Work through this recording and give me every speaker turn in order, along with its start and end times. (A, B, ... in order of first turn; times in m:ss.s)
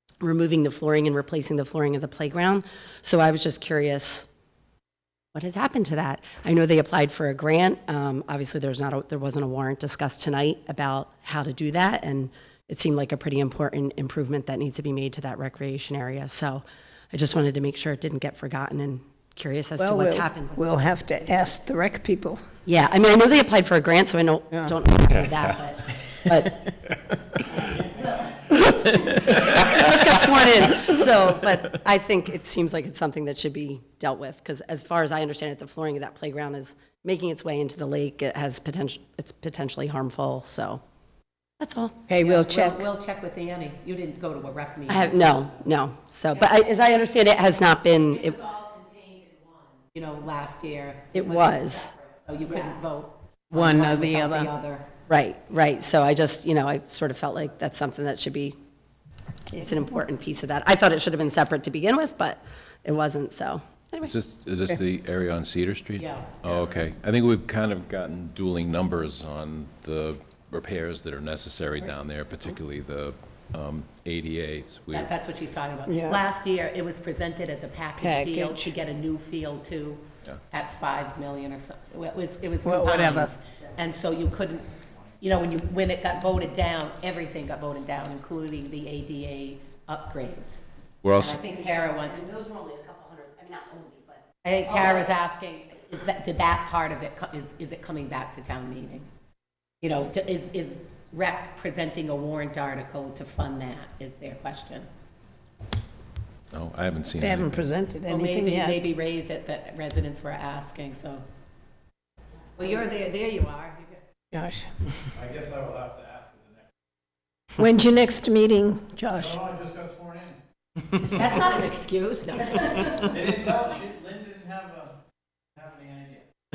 0:00.2-0:04.3 A
0:05.3-0:20.6 A
0:19.8-0:22.4 B
0:22.6-0:26.7 A
0:28.7-0:40.8 A
0:41.6-0:42.1 A
0:42.1-0:42.8 B
0:42.1-0:45.3 C
0:44.9-0:48.4 A
0:48.6-0:49.2 C
0:49.9-0:51.6 C
0:51.1-0:52.0 A
0:52.1-0:54.9 C
0:53.5-0:54.5 B
0:55.1-0:58.6 A
0:59.5-1:04.1 A
1:04.0-1:15.1 D
1:06.0-1:06.3 C
1:14.9-1:24.7 C
1:15.8-1:16.2 B
1:18.0-1:18.7 B
1:22.6-1:23.3 B
1:25.2-1:30.6 C
1:31.0-1:31.4 D
1:31.1-1:32.3 C
1:31.3-1:35.0 A
1:34.4-1:39.1 C
1:39.8-1:44.9 C
1:46.5-1:47.6 D
1:47.2-1:48.8 B
1:48.1-1:51.2 C
1:52.6-1:54.0 C
1:54.3-1:54.7 B
1:55.2-1:56.3 E
1:57.6-1:59.4 B
1:59.4-2:00.3 E
2:01.0-2:03.4 C
2:03.1-2:04.9 E
2:05.6-2:06.2 E